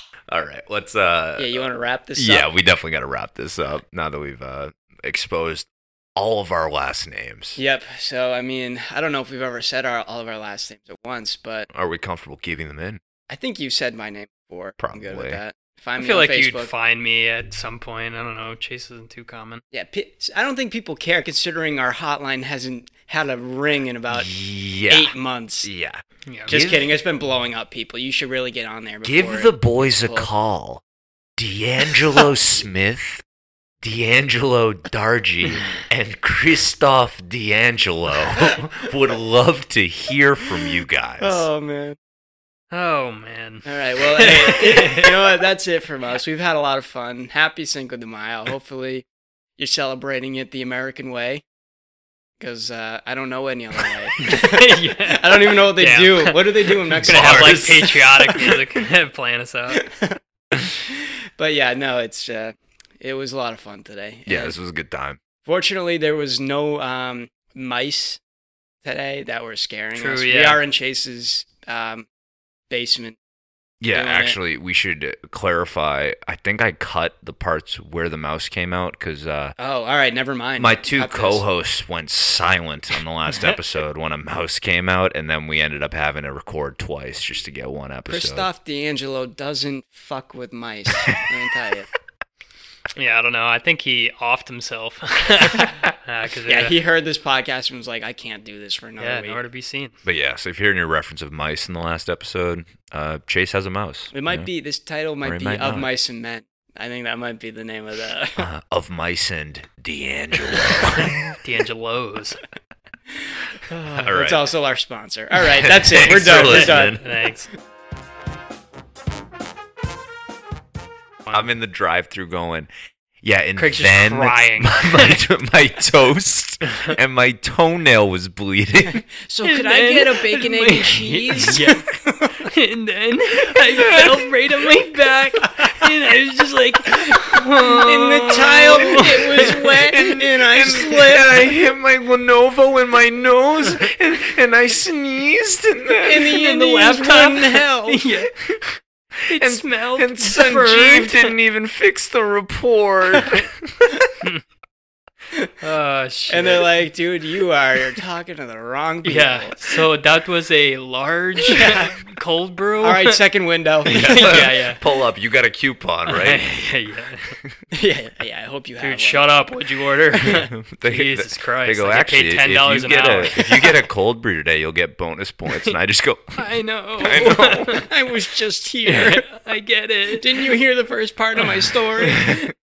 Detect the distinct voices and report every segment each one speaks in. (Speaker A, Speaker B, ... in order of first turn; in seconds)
Speaker A: 0.3-7.6, 11.7-13.0, 14.8-15.4, 24.1-26.9, 29.0-30.8, 31.4-33.2, 33.8-41.4, 57.0-58.0, 64.2-65.2, 73.8-79.5, 80.6-88.5, 100.0-104.5, 105.2-105.9, 108.4-111.4, 113.9-114.4, 115.6-117.1, 121.3-122.7, 123.2-129.0, 139.8-146.2, 149.3-153.7, 163.9-166.4, 170.3-176.4, 177.0-177.8, 182.2-182.5
Speaker B: 1.4-2.5, 7.5-11.7, 13.3-16.7, 19.7-24.3, 24.9-25.7, 26.5-30.3, 41.2-42.0, 43.6-49.0, 49.6-51.4, 52.4-58.5, 59.7-60.2, 60.9-64.5, 65.4-68.2, 68.8-72.1, 72.7-73.2, 73.9-74.3, 79.6-81.4, 88.1-91.9, 96.5-99.4, 104.1-108.5, 113.7-117.0, 129.1-132.5, 136.9-141.4, 146.0-148.0, 156.3-159.8, 161.5-161.9, 162.8-164.2, 167.7-169.3, 177.5-179.3, 180.2-182.3
Speaker C: 16.0-19.6, 42.7-45.1, 54.2-59.9, 69.9-70.6, 93.0-96.8, 99.0-100.0, 111.3-112.4, 116.0-117.5, 123.5-125.2, 129.4-131.9, 132.4-139.9, 146.2-151.3, 155.6-156.8, 159.0-163.2, 163.9-164.8, 166.1-167.4, 168.8-173.7, 176.3-177.9, 178.8-180.5